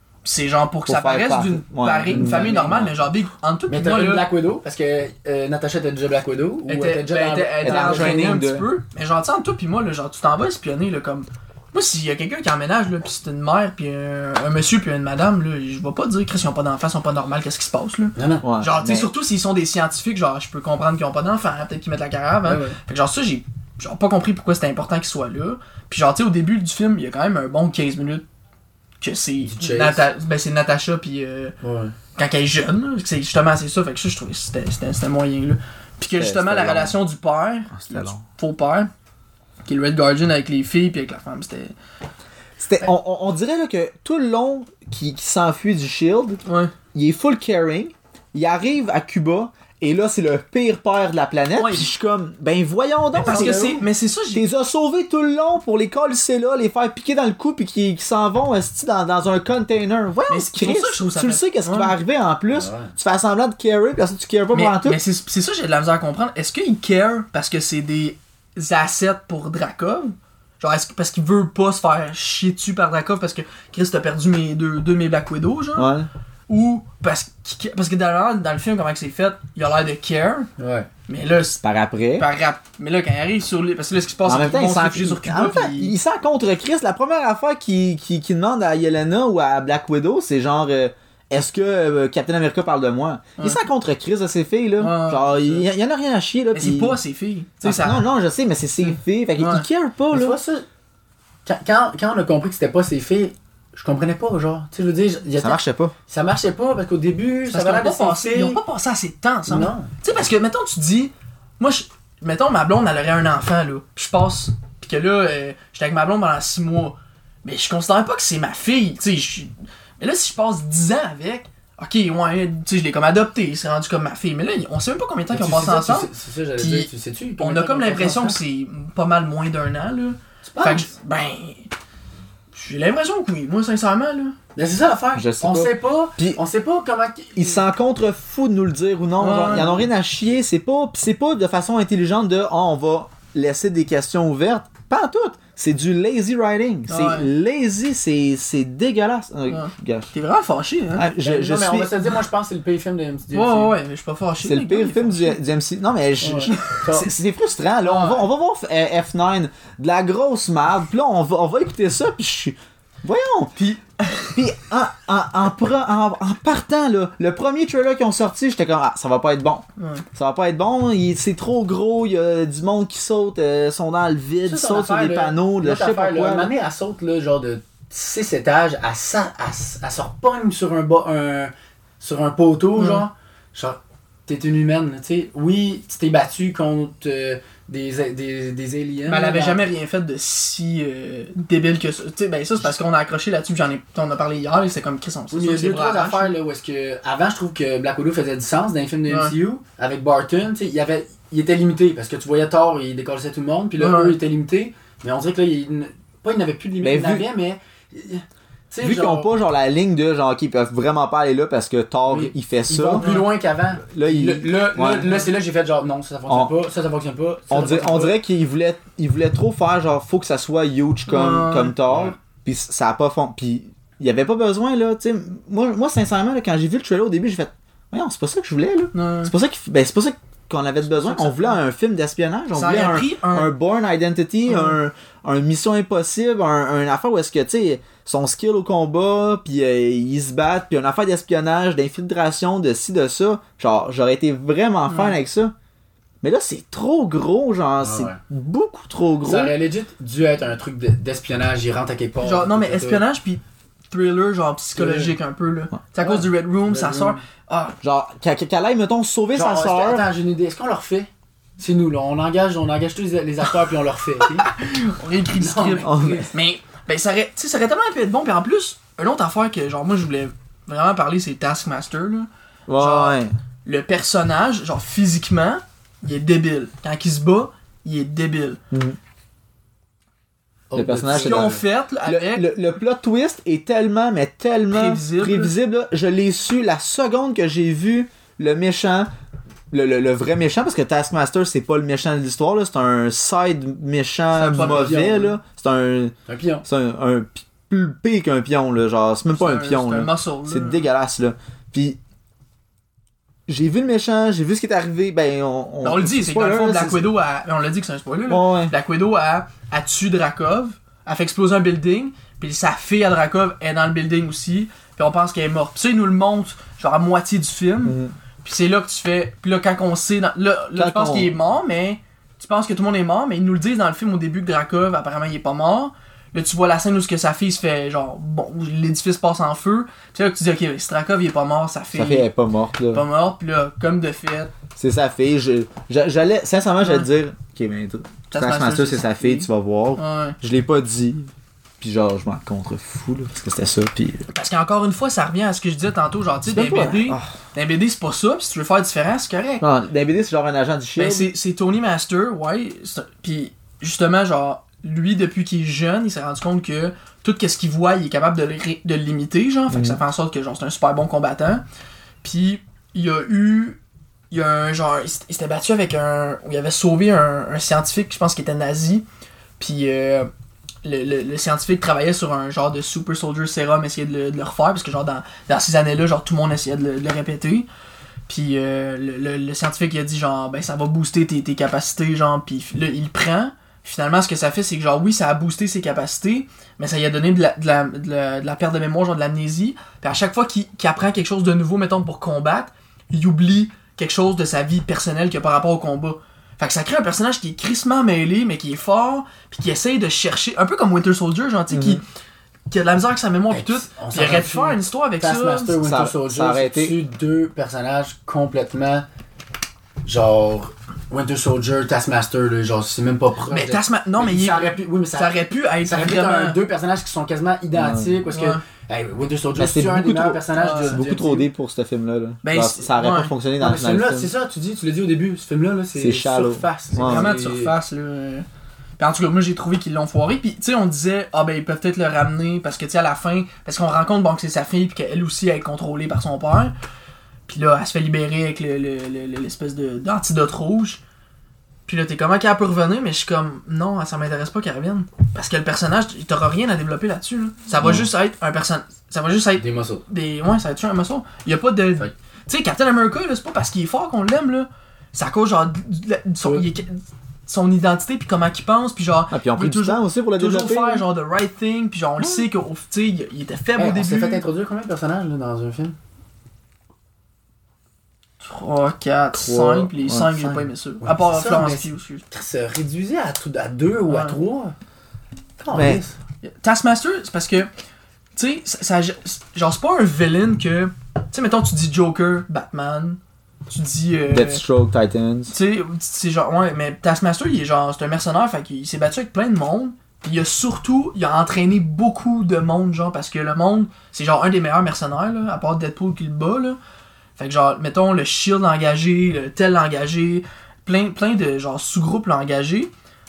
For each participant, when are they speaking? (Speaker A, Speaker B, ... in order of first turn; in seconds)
Speaker A: 0.2-4.3, 6.7-28.2, 29.0-31.6, 32.2-38.9, 39.6-41.7, 46.5-46.7, 51.6-51.9, 53.2-54.4, 60.3-62.0, 64.5-75.9, 76.5-80.5, 81.1-81.6, 82.2-85.9, 94.8-95.7, 96.5-98.0, 98.8-99.7, 107.5-131.7, 132.5-134.4, 139.2-139.9, 146.9-147.3, 149.5-151.1, 153.3-155.4, 156.5-156.8, 163.7-164.3, 169.8-170.0, 182.8-183.0, 189.1-196.3, 199.1-199.3, 203.8-204.2, 213.0-213.3, 221.1-221.8, 228.9-229.3, 230.9-231.6, 232.5-233.5, 234.5-234.8, 244.9-245.2, 252.2-257.8, 264.4-278.6, 281.1-282.5, 284.7-285.5, 294.3-295.0, 299.3-300.9, 305.8-332.3, 332.9-334.5, 336.8-337.1, 338.3-340.4, 344.3-349.6, 351.0-361.6, 362.2-363.8, 364.3-369.0, 369.6-370.3, 370.8-377.7, 378.3-402.0, 402.7-405.8, 413.5-416.6, 418.3-418.6, 420.6-421.0, 422.4-423.3, 427.0-428.5, 429.0-436.7, 437.5-441.0, 441.9-464.4, 468.4-472.2, 474.1-474.4, 476.4-477.7, 478.4-483.2, 483.7-484.6, 485.5-496.8, 497.4-502.9
Speaker B: 0.9-3.0, 7.6-8.7, 18.4-19.1, 36.2-37.0, 37.7-38.2, 42.6-46.4, 46.9-53.7, 54.3-65.0, 75.8-76.1, 81.6-82.3, 84.3-97.0, 97.6-100.4, 105.4-106.0, 135.2-136.4, 137.4-150.1, 151.0-151.9, 154.4-163.5, 164.3-176.5, 206.8-207.3, 208.8-213.1, 213.8-215.2, 216.3-216.5, 217.5-245.5, 246.2-249.6, 257.8-260.1, 265.8-266.3, 272.7-273.3, 278.7-279.0, 280.8-289.1, 289.7-296.1, 296.6-302.0, 303.5-307.1, 308.3-308.7, 317.8-318.1, 320.8-321.3, 331.9-333.1, 334.8-344.2, 346.5-347.3, 349.6-351.3, 359.7-360.0, 401.7-402.0, 405.8-407.0, 417.8-418.1, 419.6-424.3, 426.0-427.3, 447.8-448.1, 459.3-461.1, 462.2-462.5, 469.3-470.3, 475.7-476.0, 484.3-485.5
Speaker C: 2.1-2.7, 3.7-8.4, 18.2-18.4, 22.4-22.8, 29.4-30.1, 31.6-31.9, 53.2-53.8, 62.5-62.9, 80.6-80.9, 100.1-100.7, 101.5-108.6, 109.5-110.0, 125.3-128.4, 130.5-130.9, 134.6-137.6, 151.2-153.8, 156.2-157.1, 157.9-158.2, 174.5-189.6, 195.3-209.3, 212.1-218.2, 221.9-222.1, 247.8-248.2, 249.2-253.0, 254.8-255.2, 256.0-257.2, 259.3-264.5, 265.4-266.3, 280.7-281.6, 294.5-295.4, 296.3-296.6, 403.5-409.1, 410.0-421.5, 423.6-427.8, 449.6-450.1, 463.8-465.9, 470.2-474.7, 475.6-476.1